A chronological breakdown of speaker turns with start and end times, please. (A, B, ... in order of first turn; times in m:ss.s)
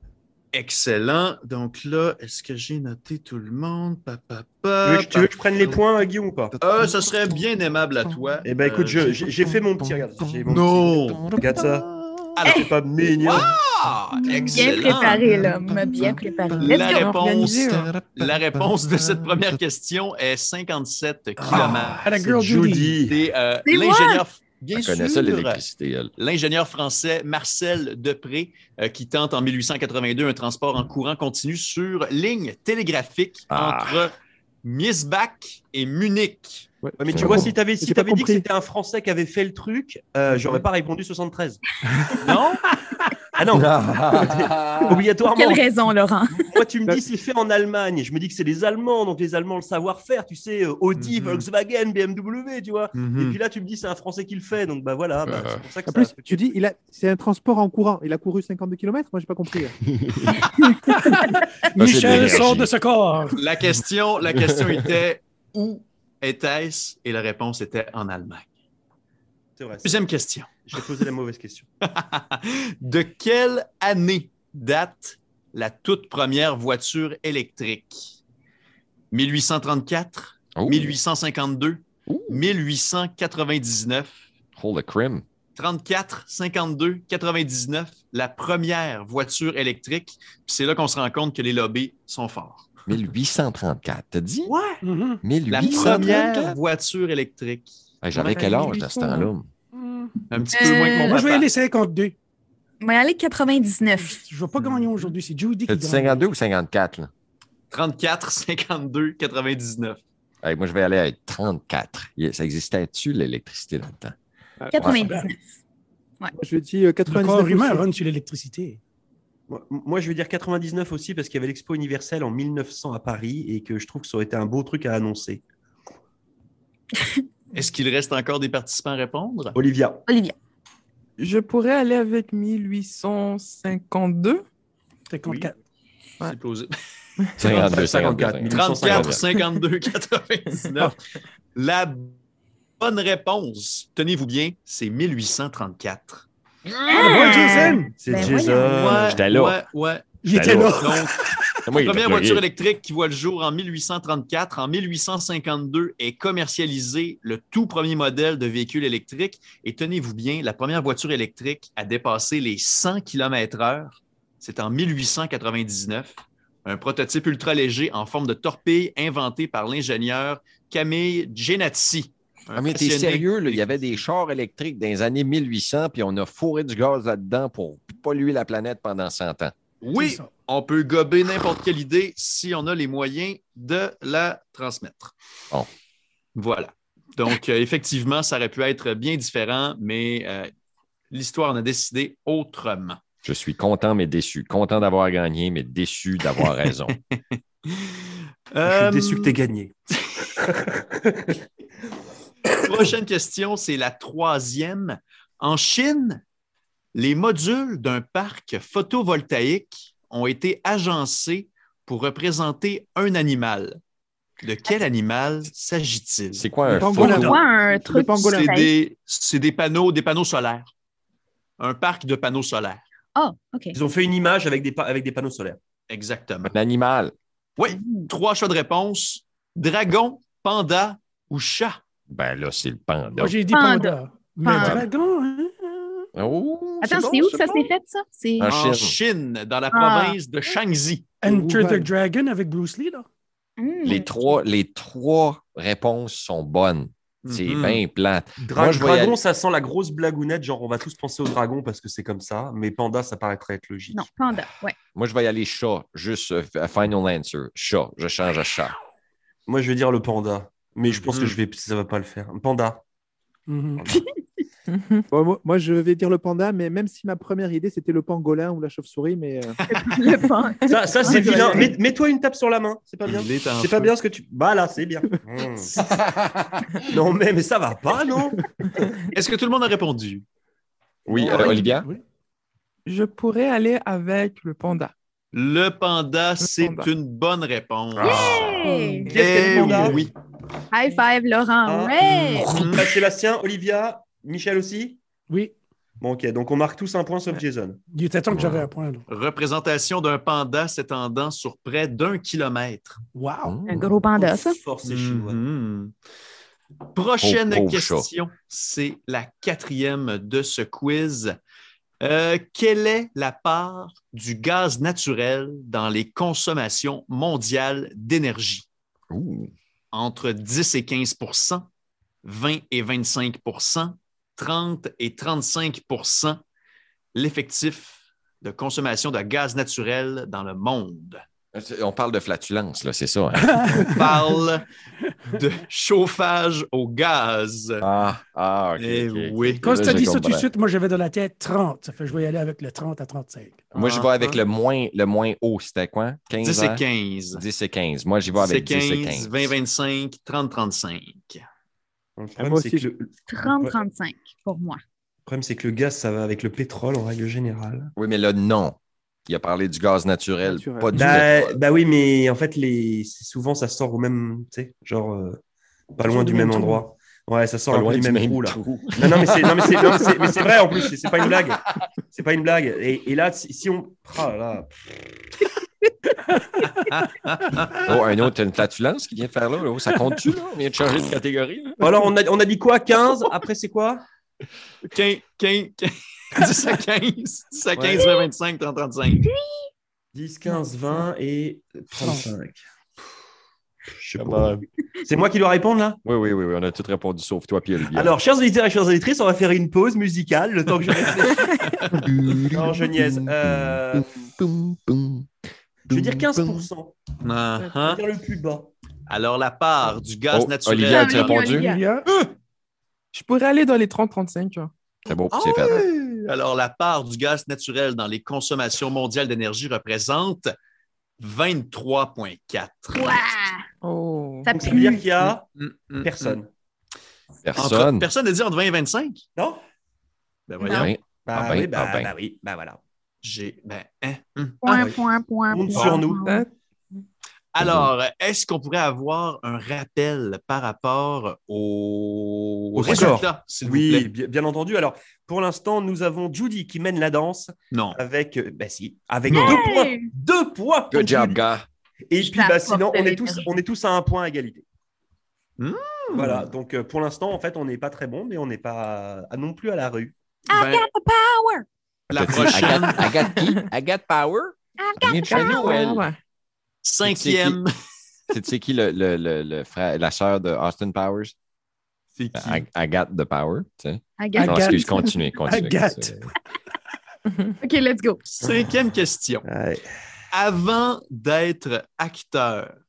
0:00.5-0:05.8 A
0:04.8-0:06.6 B
0:06.5-0:07.4 C
0:06.6-0:09.2 A
0:08.4-0:11.9 B
0:09.2-0:12.2 C
0:10.5-0:11.2 A
0:12.4-0:12.7 A
0:12.5-0:12.7 D
0:12.5-0:13.5 B
0:13.2-0:13.6 C
0:13.2-0:15.2 A
0:14.1-0:19.6 C
0:14.3-0:17.1 D
0:16.6-0:22.0 A
0:16.7-0:17.9 E
0:21.4-0:21.9 C
0:21.4-0:23.0 F
0:22.2-0:23.2 B
0:23.1-0:25.6 A
0:23.7-0:24.2 D
0:24.8-0:26.1 C
0:26.2-0:36.7 A
0:33.5-0:34.1 C
0:36.8-0:37.3 G
0:37.0-0:41.6 B
0:37.1-0:37.6 C
0:37.8-0:38.4 G
0:40.3-0:40.6 G
0:42.2-0:42.6 A
0:42.7-0:43.0 F
0:43.4-0:45.7 B
0:43.5-0:45.0 C
0:45.2-0:46.5 D
0:46.3-0:56.3 B
0:51.0-0:51.4 A
0:53.0-0:53.4 A
0:55.2-0:55.7 C
0:55.9-0:59.8 G
1:00.0-1:00.4 C
1:00.9-1:03.4 F
1:01.8-1:02.7 C
1:03.3-1:08.5 A
1:04.3-1:04.9 C
1:09.6-1:10.1 B
1:09.8-1:10.7 A
1:10.6-1:11.7 B
1:12.0-1:18.2 A
1:19.1-1:24.2 A
1:20.6-1:21.0 C
1:22.1-1:22.4 C
1:24.6-1:25.2 C
1:25.6-1:32.7 A
1:32.9-1:34.5 C
1:34.5-1:34.8 A
1:34.8-1:35.2 F
1:35.2-1:36.6 C
1:35.5-1:38.8 A
1:38.0-1:39.5 C
1:38.9-1:39.3 D
1:39.7-1:40.1 F
1:40.3-1:41.5 A
1:40.5-1:41.2 D
1:41.0-1:42.2 F
1:42.8-1:44.2 D
1:44.0-1:46.2 F
1:45.7-1:47.1 C
1:47.7-1:50.0 A
1:50.4-1:54.2 C
1:54.6-1:54.9 G
1:54.7-1:55.6 D
1:54.8-1:55.1 C
1:55.0-1:55.3 F
1:56.4-1:57.9 G
1:57.1-1:58.8 F
1:59.5-2:05.4 B
2:07.0-2:07.2 D
2:07.5-2:09.6 A
2:09.6-2:10.0 B
2:10.1-2:10.4 D
2:11.2-2:14.4 E
2:15.1-2:15.6 F
2:16.2-2:16.7 A
2:17.2-2:17.7 E
2:17.4-2:19.2 C
2:17.5-2:19.2 B
2:18.5-2:21.0 A
2:21.6-2:22.2 A
2:22.8-2:26.3 A
2:26.9-2:28.8 D
2:26.9-2:28.0 F
2:28.0-2:29.2 B
2:28.5-2:31.1 A
2:29.0-2:29.6 C
2:30.2-2:31.6 F
2:30.3-2:31.1 C
2:31.7-2:32.4 C
2:31.8-2:53.8 A
2:52.5-2:59.5 C
2:59.8-3:05.2 A
2:59.9-3:00.3 F
3:06.4-3:10.5 A
3:11.1-3:13.0 A
3:13.2-3:16.9 C
3:16.4-3:19.4 A
3:18.6-3:19.8 B
3:20.4-3:21.4 B
3:22.6-3:26.2 A
3:26.9-3:33.8 A
3:34.4-3:36.4 A
3:36.4-3:37.4 C
3:36.7-3:37.4 F
3:36.7-3:38.5 G
3:37.0-3:38.7 D
3:38.0-3:40.7 A
3:41.6-3:42.8 A
3:43.2-3:43.8 D
3:43.7-3:45.6 B
3:45.9-3:46.5 A
3:46.4-3:47.2 C
3:47.6-3:51.8 A
3:47.7-3:48.1 D
3:52.1-3:53.4 C
3:53.2-3:56.1 F
3:53.5-3:54.8 D
3:54.6-3:54.9 C
3:56.2-3:57.7 C
3:56.8-3:58.5 D
3:58.4-3:59.0 C
3:58.5-4:01.0 A
3:59.7-4:00.2 D
4:01.2-4:03.1 F
4:01.3-4:01.9 G
4:03.6-4:04.4 D
4:03.8-4:09.2 C
4:07.2-4:07.8 A
4:08.4-4:14.1 B
4:13.9-4:14.8 D
4:15.0-4:18.8 C
4:19.5-4:22.8 B
4:20.9-4:21.4 A
4:23.5-4:23.8 F
4:25.1-4:29.6 G
4:29.7-4:31.7 D
4:30.7-4:35.8 B
4:31.1-4:31.4 G
4:33.0-4:33.9 A
4:35.8-4:36.5 C
4:36.9-4:38.5 B
4:39.1-4:40.2 A
4:41.1-4:41.7 B
4:41.1-4:41.9 C
4:41.4-4:41.8 E
4:42.9-4:44.9 E
4:45.3-4:48.5 A
4:46.4-4:46.9 E
4:48.0-4:48.6 C
4:48.0-4:49.2 D
4:48.6-4:49.2 E
4:49.1-4:50.0 B
4:49.1-4:50.1 A
4:50.7-4:52.8 D
4:51.7-4:55.0 B
4:52.0-4:52.8 A
4:56.0-4:57.8 B
4:57.9-4:59.0 F
4:58.3-4:58.7 C
4:59.1-5:03.0 A
5:03.2-5:03.6 F
5:03.4-5:03.9 C
5:03.7-5:04.6 D
5:04.2-5:05.4 B
5:04.8-5:05.9 A
5:06.9-5:11.3 A
5:07.2-5:08.1 C
5:12.0-5:18.7 A
5:19.1-5:19.5 C
5:19.9-5:21.7 A
5:22.2-5:26.4 A
5:27.2-5:31.2 A
5:31.5-5:33.9 C
5:33.4-5:34.4 F
5:33.9-5:34.7 A
5:35.3-5:37.8 A
5:37.8-5:40.5 C
5:38.8-5:39.7 A
5:39.6-5:43.7 F
5:43.7-5:49.5 C
5:43.8-5:44.4 A
5:46.4-5:47.4 A
5:48.3-5:51.4 A
5:52.2-5:53.8 B
5:52.4-5:52.9 G
5:53.3-5:54.8 D
5:55.3-5:57.9 B
5:58.0-6:01.6 C
6:00.4-6:01.1 G
6:00.9-6:05.4 B
6:05.9-6:14.7 B
6:06.0-6:06.8 G
6:07.7-6:10.6 C
6:16.6-6:18.0 A
6:17.8-6:21.9 C
6:21.8-6:24.0 B
6:24.9-6:29.2 A
6:29.2-6:29.6 D
6:30.1-6:32.6 B
6:32.0-6:32.3 F
6:33.9-6:36.0 B
6:34.2-6:34.6 C
6:36.0-6:38.1 C
6:37.9-6:41.5 B
6:41.6-6:42.1 A
6:41.9-6:45.3 C
6:42.5-6:44.1 B
6:45.9-6:47.0 B
6:45.9-6:46.7 C
6:47.2-6:48.0 A
6:47.8-6:48.7 B
6:49.1-6:51.4 A
6:50.3-6:52.2 C
6:50.9-6:51.9 D
6:51.4-6:52.1 F
6:53.1-6:54.7 E
6:55.1-6:55.8 C
6:55.3-7:00.5 A
7:01.2-7:03.2 A
7:03.0-7:03.6 D
7:03.8-7:04.5 E
7:04.4-7:05.2 D
7:04.5-7:05.5 B
7:05.6-7:06.4 A
7:06.0-7:06.5 B
7:07.4-7:08.1 C
7:07.6-7:09.2 A
7:09.4-7:09.6 B
7:10.5-7:10.9 A
7:10.6-7:10.9 D
7:10.6-7:12.1 C
7:11.2-7:12.8 B
7:13.2-7:14.9 A
7:14.6-7:16.4 D
7:14.7-7:16.3 B
7:16.2-7:16.5 E
7:17.5-7:24.1 A
7:17.6-7:17.9 C
7:22.8-7:31.4 B
7:27.7-7:28.0 A
7:29.3-7:29.6 A
7:29.3-7:30.1 D
7:30.9-7:31.7 C
7:32.1-7:34.6 B
7:32.2-7:33.6 D
7:35.6-7:36.5 A
7:36.1-7:40.1 B
7:40.5-7:41.7 D
7:40.5-7:40.9 A
7:42.1-7:43.1 A
7:42.1-7:46.1 C
7:44.8-7:45.9 D
7:45.2-7:46.2 E
7:46.8-7:47.7 A
7:47.0-7:47.6 C
7:48.3-7:51.3 C
7:52.2-7:52.6 A
7:52.3-7:56.3 C
7:54.2-7:55.5 D
7:54.4-7:56.2 F
7:57.6-7:58.2 D
7:58.3-7:59.5 A
7:59.5-7:59.8 B
8:00.3-8:02.7 A